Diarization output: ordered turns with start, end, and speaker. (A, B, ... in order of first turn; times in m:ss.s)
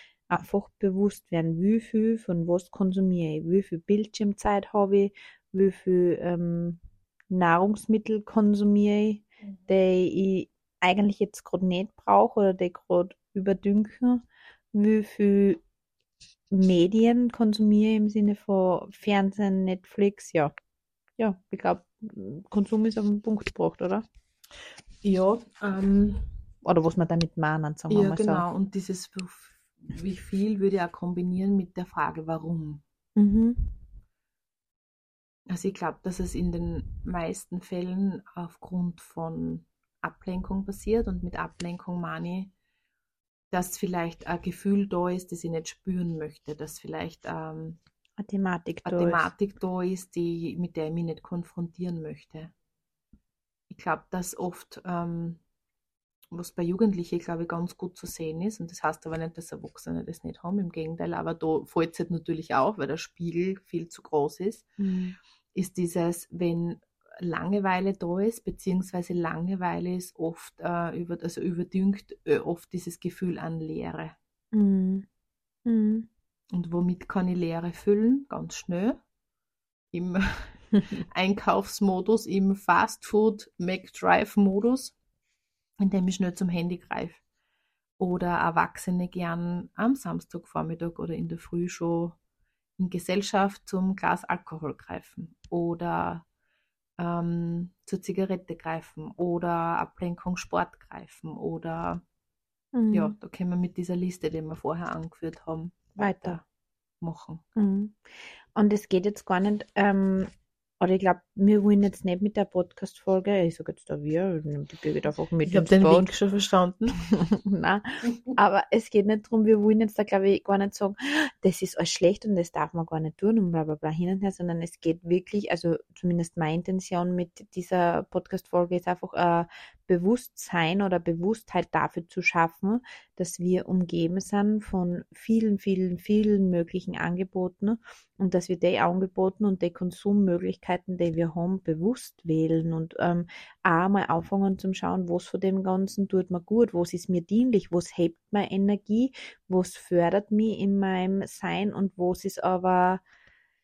0:00.3-0:15.6 A
0:16.5-0:20.5 A
0:21.2-0:24.0 A
0:25.0-0:26.3 B
0:26.6-0:28.4 A
0:27.9-0:32.8 B
0:33.2-0:33.8 A
0:35.5-0:42.5 B
0:43.5-0:47.8 B
0:48.2-0:49.3 A
0:48.8-0:52.5 B
0:53.7-0:55.4 B
0:56.3-1:04.7 B
1:04.8-1:05.2 A
1:05.5-1:14.1 B
1:14.5-1:15.0 A
1:15.6-1:16.1 A
1:16.5-1:19.0 B
1:19.9-1:24.9 B
1:25.8-1:27.2 B
1:28.0-1:32.2 B
1:32.8-1:36.2 B
1:37.0-1:42.0 B
1:42.7-1:43.1 A
1:42.9-1:46.4 B
1:46.0-1:46.4 A
1:47.0-1:47.4 B
1:47.6-1:48.0 A
1:48.5-1:56.1 A
1:55.4-1:57.0 B
1:57.0-2:33.0 A